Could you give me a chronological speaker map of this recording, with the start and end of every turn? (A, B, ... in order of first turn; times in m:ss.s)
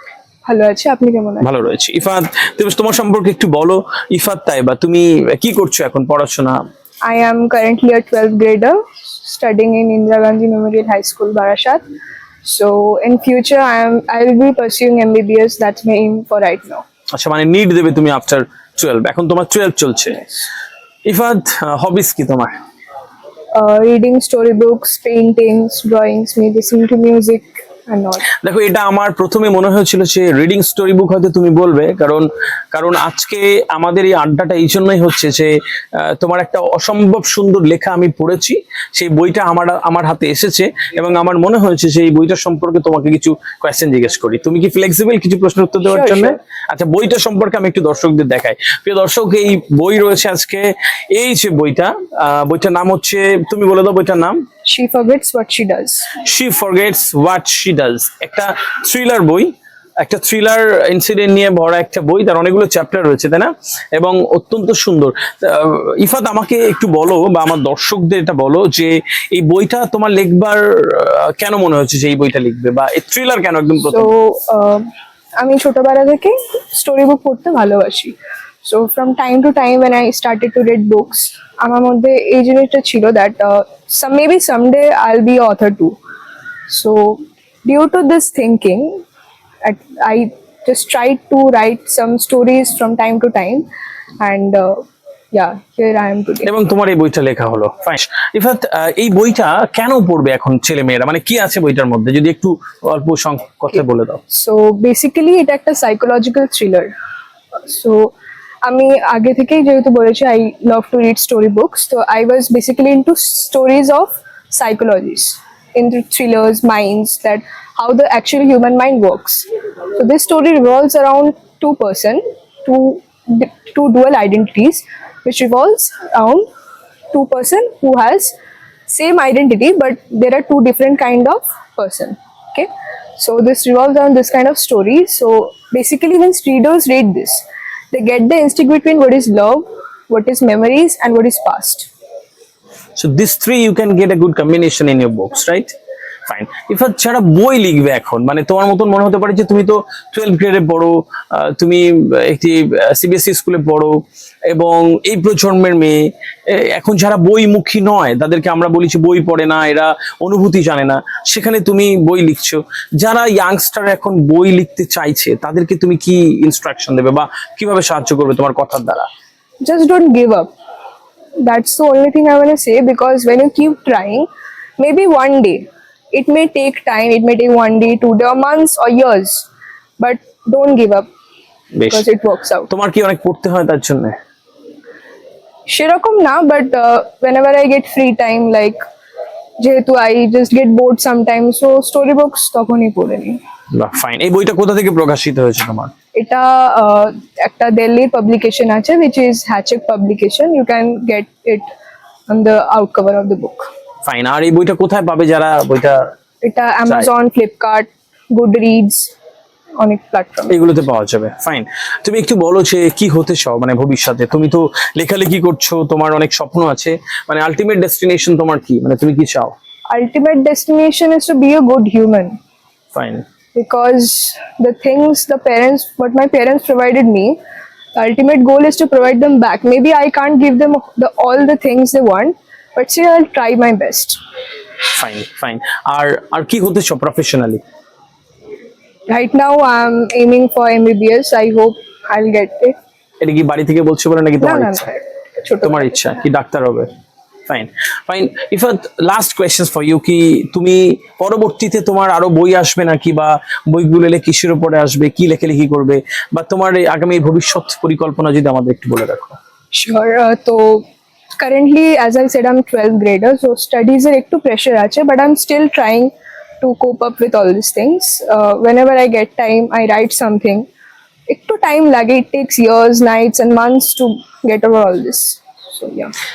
0:00.4-0:01.5 A
0:01.4-0:06.6 B
0:07.0-0:11.8 A
0:12.4-0:16.8 A
0:17.1-0:20.2 B
0:21.0-0:22.5 B
0:23.5-0:28.2 A
0:28.4-0:54.4 B
0:45.8-0:46.4 A
0:54.7-0:56.1 A
0:56.2-1:14.1 B
1:13.8-1:26.0 A
1:26.7-1:29.0 A
1:29.6-1:33.7 A
1:34.2-1:36.5 A
1:36.4-1:44.2 B
1:44.3-1:46.9 A
1:47.6-2:06.5 A
2:07.1-2:08.3 A
2:08.9-2:21.9 A
2:23.0-2:25.7 B
2:26.3-2:49.1 B
2:49.6-2:50.5 A
2:51.4-3:01.1 A
3:01.8-3:02.1 B
3:01.9-3:02.7 A
3:02.7-3:04.2 B
3:05.7-3:08.8 A
3:09.6-3:13.4 A
3:13.7-3:15.9 B
3:16.1-3:21.7 A
3:22.3-3:23.7 A
3:24.0-3:26.1 B
3:26.4-3:29.1 A
3:29.8-3:30.6 A
3:30.5-3:39.5 B
3:39.9-3:42.4 A
3:42.9-3:43.2 B
3:43.5-3:47.4 A
3:48.0-3:54.2 A
3:54.9-3:57.6 B
3:59.1-4:02.8 A
4:03.2-4:04.9 B
4:04.4-4:06.1 A
4:05.6-4:06.9 B
4:07.5-4:19.4 B
4:19.7-4:20.8 A
4:21.4-4:30.7 A
4:31.3-4:36.1 A